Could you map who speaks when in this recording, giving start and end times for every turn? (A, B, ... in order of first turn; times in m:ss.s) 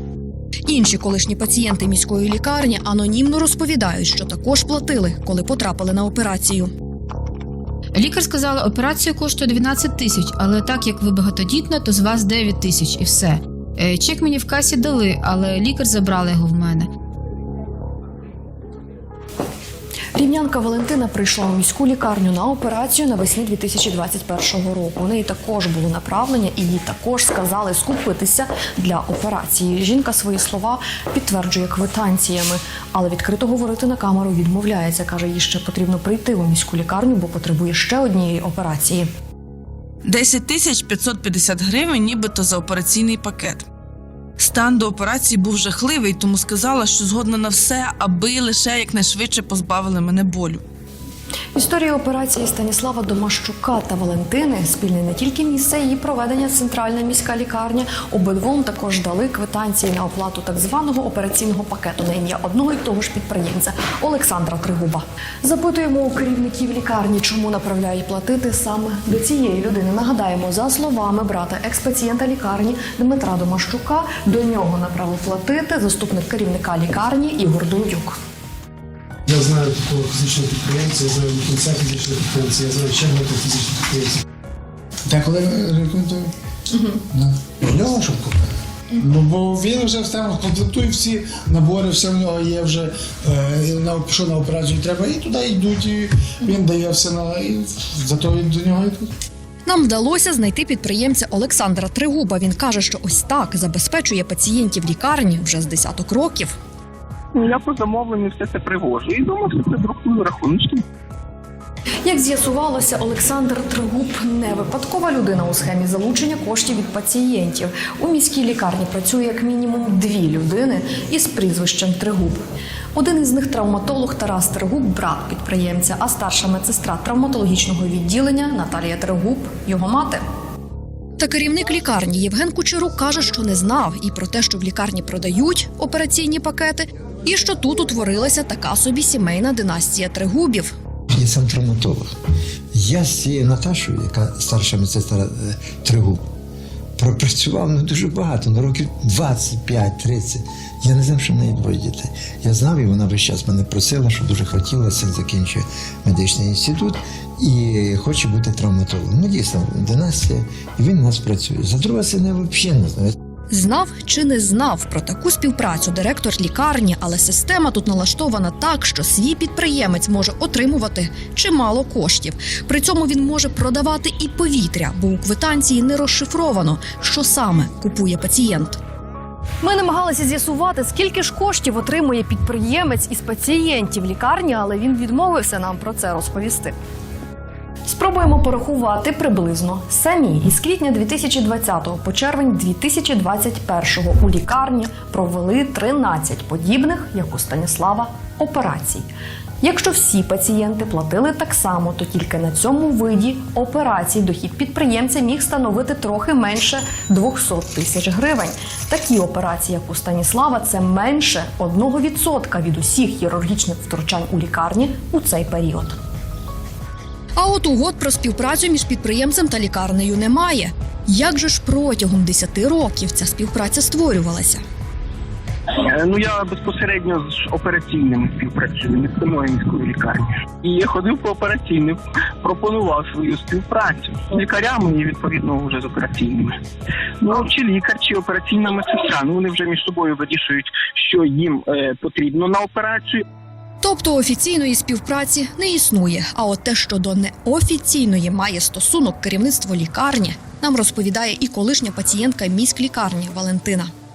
0:00.7-0:06.7 A
0:07.9-0:16.9 B
0:20.1-0:39.1 A
0:40.0-0:43.6 C
0:44.4-0:50.6 C
0:51.5-1:18.2 A
1:19.2-1:24.2 D
1:25.1-1:26.3 E
1:26.7-1:27.0 A
1:27.1-1:39.1 E
1:39.6-1:46.5 A
1:47.3-1:50.8 F
1:52.0-2:02.4 A
2:02.9-2:10.2 A
2:11.2-2:20.7 A
2:21.1-2:22.0 G
2:22.7-2:26.2 G
2:27.0-2:43.1 G
2:43.5-2:58.8 A
2:59.6-3:06.7 A
3:07.8-3:19.1 A
3:19.6-3:36.0 A
3:37.4-3:44.6 A
3:45.8-3:56.6 F
3:57.2-4:03.2 F
4:03.8-4:13.9 A